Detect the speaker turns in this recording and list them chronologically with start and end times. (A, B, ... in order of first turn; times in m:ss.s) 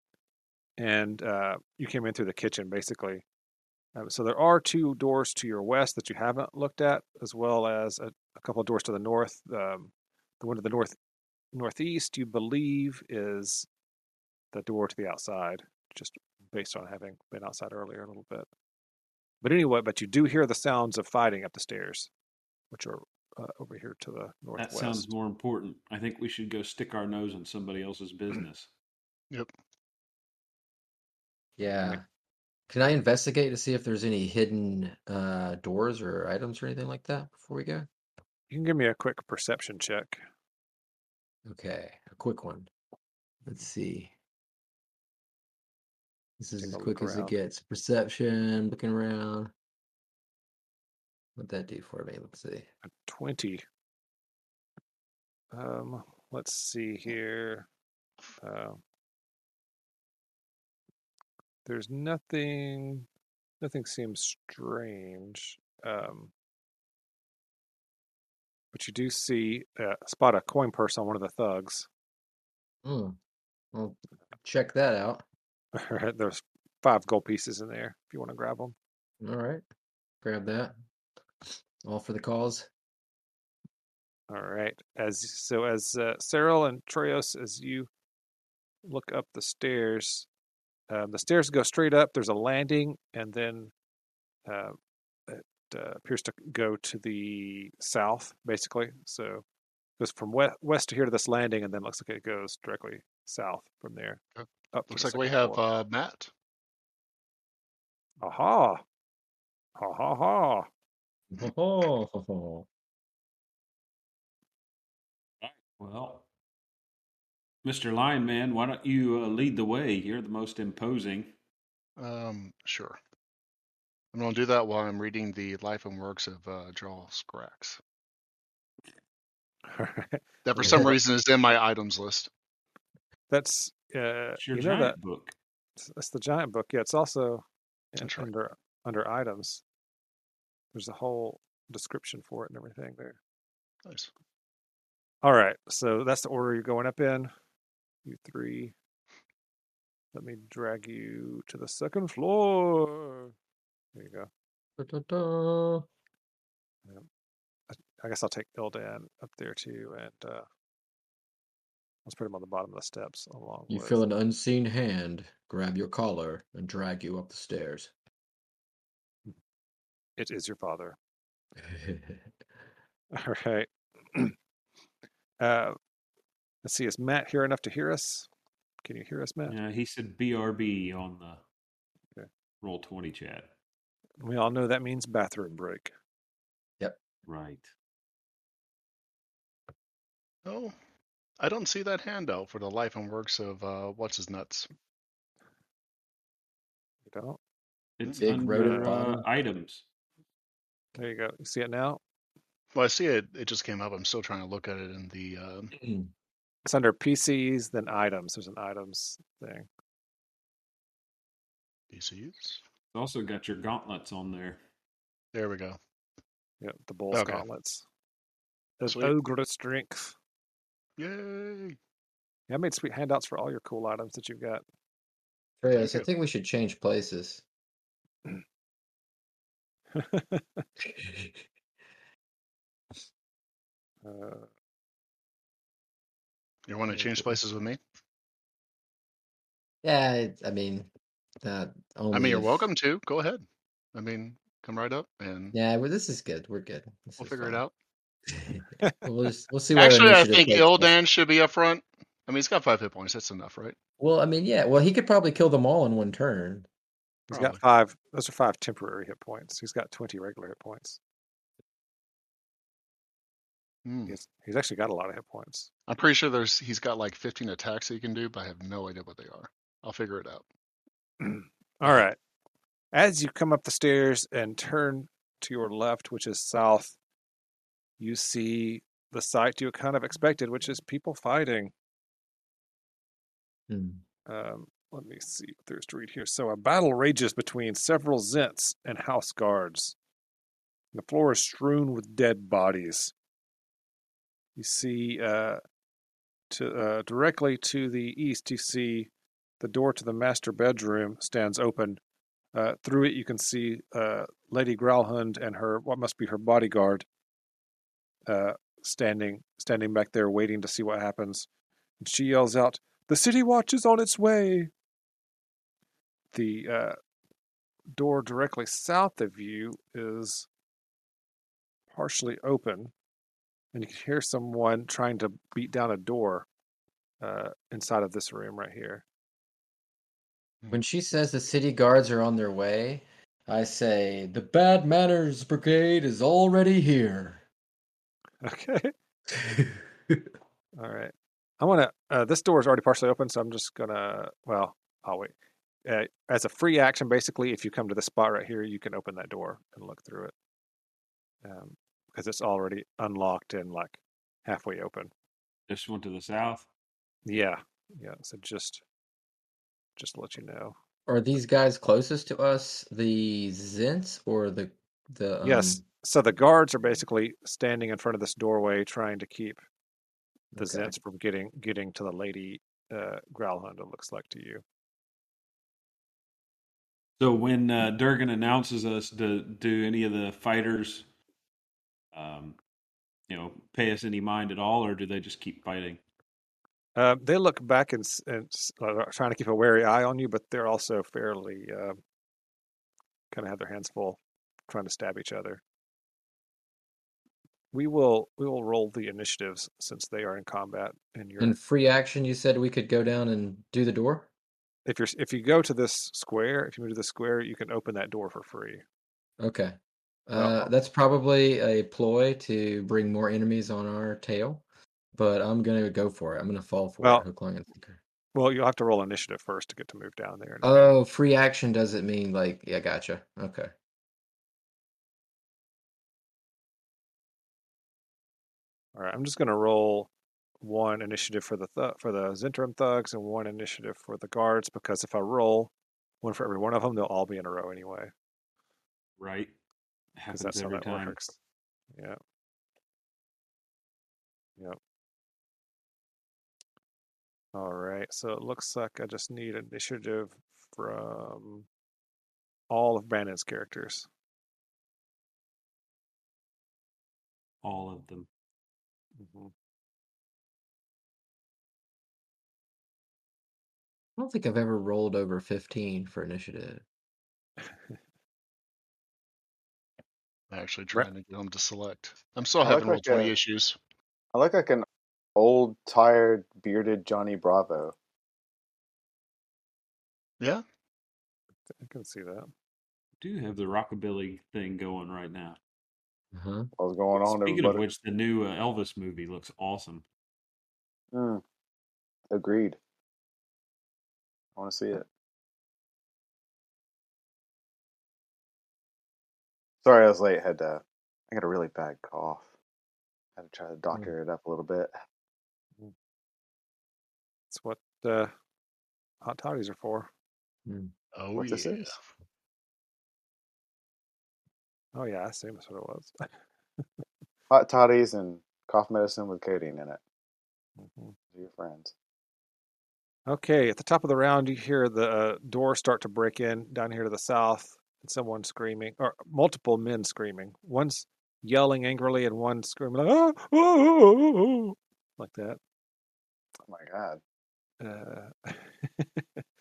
0:00.8-0:03.2 A
0:04.0-0:11.0 A
0:11.5-0:13.7 A
0:14.5-0:18.5 A
0:19.4-0:22.1 A
0:22.7-0:25.1 A
0:24.6-0:28.7 B
0:31.6-0:32.0 C
0:32.7-0:37.9 C
0:38.5-0:40.2 A
0:41.5-0:42.7 C
0:43.5-0:44.1 C
0:46.4-0:49.5 C
0:46.6-0:47.3 A
0:51.4-0:52.7 C
0:53.0-0:53.6 A
0:55.5-0:57.7 A
0:58.4-0:58.8 A
1:01.7-1:03.1 A
1:03.6-1:06.3 A
1:08.7-1:11.9 A
1:12.8-1:13.2 C
1:13.7-1:15.2 C
1:15.7-1:18.8 A
1:19.2-1:19.6 C
1:20.2-1:20.8 C
1:21.4-1:22.7 C
1:24.3-1:27.9 A
1:28.8-1:30.3 A
1:30.9-1:33.7 A
1:34.5-1:34.8 A
1:35.3-1:39.4 A
1:40.0-1:44.2 A
1:44.4-1:46.3 D
1:44.7-1:45.6 A
1:48.2-1:48.8 A
1:49.8-1:50.7 A
1:51.3-1:52.7 C
1:55.4-1:56.3 B
1:57.6-2:01.3 B
2:02.0-2:03.0 D
2:04.1-2:07.8 D
2:09.7-2:11.0 A
2:10.4-2:12.3 D
2:13.3-2:15.0 A
2:14.4-2:15.4 B
2:15.8-2:17.4 A
2:17.9-2:19.6 A
2:18.0-2:18.3 D
2:20.7-2:23.2 A
2:25.2-2:27.3 A
2:28.0-2:28.7 A
2:30.1-2:33.3 A
2:34.0-2:34.3 A
2:34.8-2:35.9 C
2:37.7-2:40.4 A
2:42.0-2:44.0 A
2:43.7-2:47.9 C
2:50.2-2:51.0 A
2:51.6-2:52.2 C
2:53.1-2:54.4 A
2:55.4-2:55.8 A
2:56.6-2:58.3 A
2:58.8-2:59.6 A
2:59.5-3:01.4 B
3:02.6-3:03.5 B
3:04.2-3:05.9 A
3:07.3-3:07.7 B
3:10.4-3:10.7 D
3:11.4-3:14.7 D
3:17.1-3:17.4 A
3:18.0-3:19.9 B
3:18.2-3:19.2 C
3:21.0-3:22.0 A
3:22.7-3:25.7 D
3:25.8-3:26.1 C
3:26.6-3:29.7 A
3:31.9-3:32.6 D
3:32.9-3:34.6 B
3:35.3-3:35.8 D
3:36.6-3:37.8 A
3:37.1-3:37.5 D
3:38.8-3:40.1 A
3:38.9-3:39.1 D
3:41.0-3:41.8 D
3:42.5-3:44.6 A
3:45.6-3:47.4 C
3:45.7-3:46.1 D
3:49.9-3:50.6 A
3:50.8-3:51.4 C
3:54.0-3:54.5 A
3:56.7-3:57.8 D
3:59.8-4:00.9 C
4:01.4-4:02.7 C
4:02.1-4:03.4 D
4:04.0-4:05.6 D
4:05.5-4:07.6 C
4:07.2-4:07.7 D
4:08.3-4:10.9 C
4:09.7-4:13.8 D
4:14.0-4:16.7 C
4:17.3-4:21.0 A
4:17.3-4:17.6 D
4:23.9-4:24.2 D
4:24.1-4:25.7 A
4:25.9-4:30.4 D
4:31.2-4:32.2 A
4:32.9-4:37.0 A
4:38.0-4:41.7 A
4:43.7-4:44.0 C
4:44.3-4:50.0 A
4:50.9-4:53.1 A
4:54.6-4:55.6 A
4:56.5-5:02.0 A
5:02.5-5:07.0 A
5:08.3-5:11.5 A
5:12.0-5:14.7 A
5:16.3-5:17.0 A
5:17.9-5:20.5 A
5:21.9-5:22.9 A
5:23.7-5:26.5 A
5:27.2-5:29.0 A
5:30.7-5:37.4 C
5:38.4-5:38.9 A
5:39.3-5:40.3 C
5:40.8-5:45.3 A
5:45.9-5:50.3 A
5:51.4-5:55.1 A
5:55.7-5:56.7 B
5:57.3-5:58.8 A
6:00.0-6:00.7 A
6:01.1-6:05.8 C
6:05.4-6:09.6 A
6:10.5-6:14.6 A
6:10.6-6:10.9 C
6:17.2-6:21.1 B
6:22.1-6:22.6 B
6:23.3-6:26.0 B
6:27.0-6:32.0 A
6:33.3-6:35.6 A
6:37.7-6:41.6 A
6:41.4-6:44.3 C
6:44.9-6:48.8 A
6:49.4-6:49.8 C
6:50.3-6:54.6 C
6:50.4-6:50.7 A
6:55.2-6:58.0 C
6:57.0-6:57.3 A
6:58.3-7:00.9 A
7:00.6-7:03.7 C
7:09.0-7:10.1 A
7:10.6-7:15.7 A
7:16.2-7:18.1 A
7:19.2-7:19.5 B
7:20.2-7:21.2 B
7:20.3-7:21.4 A
7:27.6-7:31.7 A
7:32.7-7:34.1 A
7:37.6-7:38.3 B
7:39.2-7:39.5 A
7:44.2-7:46.8 C
7:50.5-7:53.8 D
7:52.6-7:53.3 E
7:54.3-7:54.8 E
7:55.4-7:57.9 E
8:01.8-8:02.5 A
8:03.2-8:05.6 B
8:06.3-8:06.7 C
8:06.8-8:07.8 E
8:07.2-8:10.0 B
8:11.1-8:11.4 E
8:12.3-8:12.8 E
8:14.6-8:15.1 E
8:19.8-8:22.5 E
8:23.4-8:24.9 E
8:27.5-8:28.3 A
8:29.2-8:30.1 A
8:30.7-8:30.9 C
8:31.2-8:32.0 D
8:31.4-8:31.9 E
8:34.9-8:36.3 A
8:37.5-8:40.0 E
8:40.8-8:41.2 A
8:41.3-8:41.9 E
8:43.3-8:55.6 A
8:56.7-8:57.2 E
8:57.8-8:59.4 A